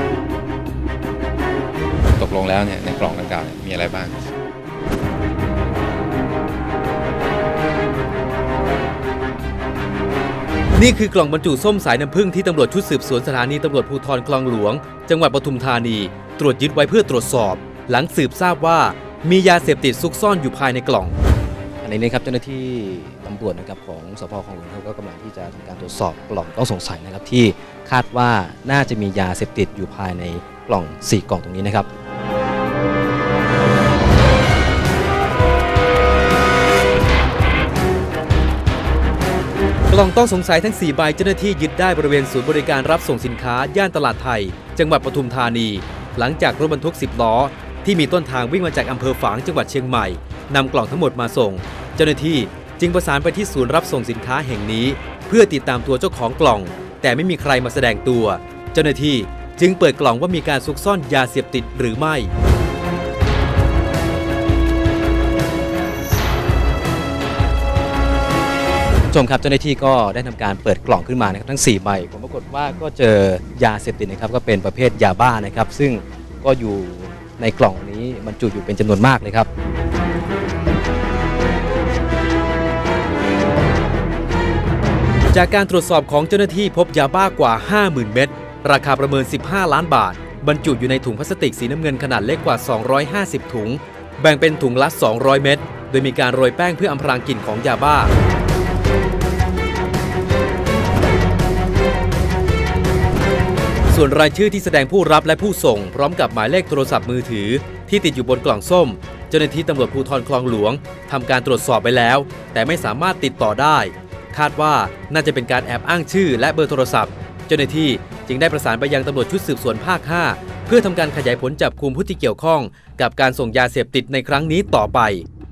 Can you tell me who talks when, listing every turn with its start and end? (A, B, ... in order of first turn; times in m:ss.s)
0:02.1-0:04.1 A
0:10.8-0:21.2 B
0:21.8-0:31.9 C
0:39.9-1:02.3 B
1:09.1-1:19.5 C
1:25.3-1:38.1 B
1:43.9-2:05.2 B